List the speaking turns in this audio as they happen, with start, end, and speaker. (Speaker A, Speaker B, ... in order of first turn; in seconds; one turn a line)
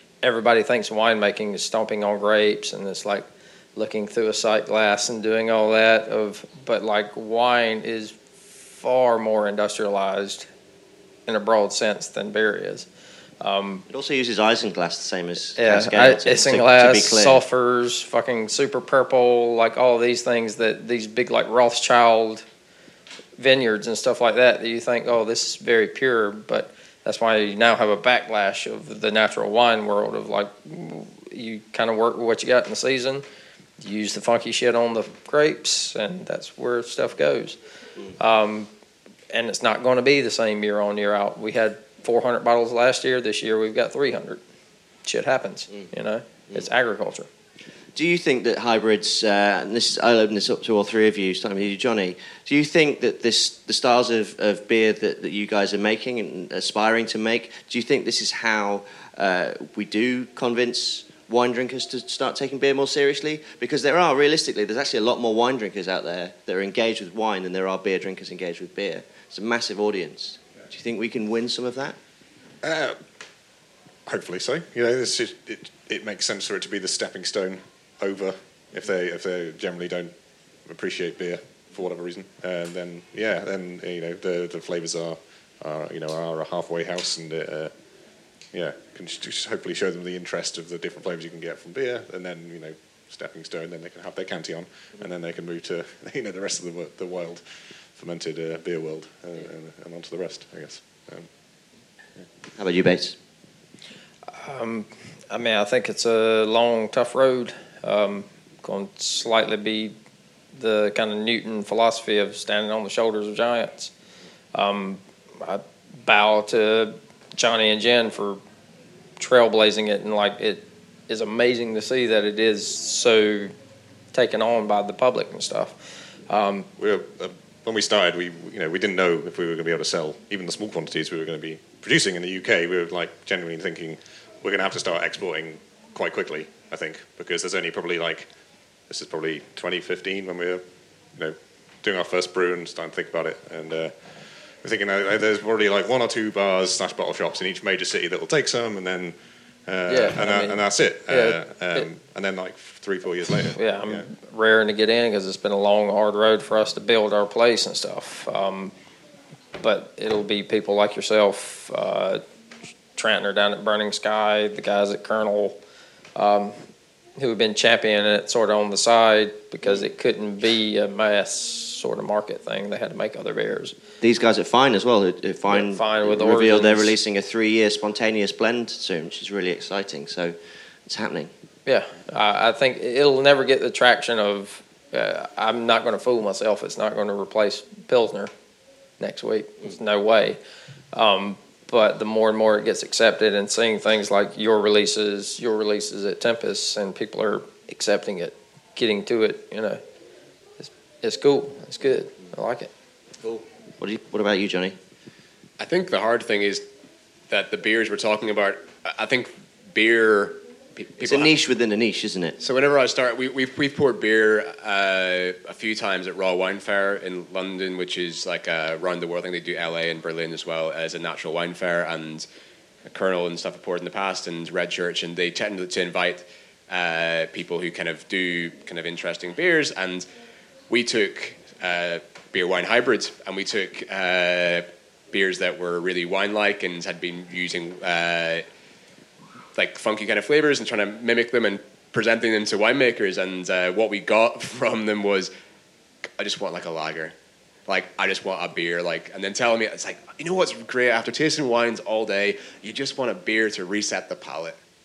Speaker A: 0.2-10.5
Speaker A: 11.3-12.9
Speaker A: 13.4-13.8
Speaker B: 13.9-17.4
Speaker A: 15.6-22.4
Speaker A: 23.4-33.2
Speaker A: 33.8-37.6
Speaker A: 38.2-38.7
Speaker A: 39.3-44.4
Speaker A: 45.0-47.3
Speaker B: 47.9-72.0
Speaker C: 72.6-73.0
Speaker C: 74.0-80.1
Speaker C: 80.7-87.7
Speaker C: 88.5-101.3
Speaker B: 102.6-103.2
Speaker A: 104.4-109.9
Speaker A: 110.5-113.9
Speaker A: 114.5-118.4
Speaker A: 119.2-123.5
Speaker A: 124.1-125.8
Speaker A: 126.3-126.7
Speaker C: 126.8-138.3
Speaker C: 138.9-143.9
Speaker C: 144.6-149.2
Speaker C: 149.7-154.1
Speaker A: 149.9-151.9
Speaker A: 153.5-158.7
Speaker A: 159.6-162.2
Speaker A: 162.9-165.6
Speaker A: 166.2-166.6
Speaker A: 167.2-173.8
Speaker B: 174.0-181.3
Speaker A: 175.5-176.9
Speaker A: 181.7-188.3
Speaker A: 189.0-190.4
Speaker A: 190.9-199.8
Speaker A: 200.6-202.7
Speaker B: 203.2-204.8
Speaker D: 205.6-206.6
Speaker D: 207.3-211.3
Speaker B: 211.0-212.4
Speaker D: 212.4-222.2
Speaker D: 222.8-230.1
Speaker D: 230.7-238.4
Speaker D: 239.5-245.3
Speaker D: 246.2-247.1
Speaker D: 247.7-254.6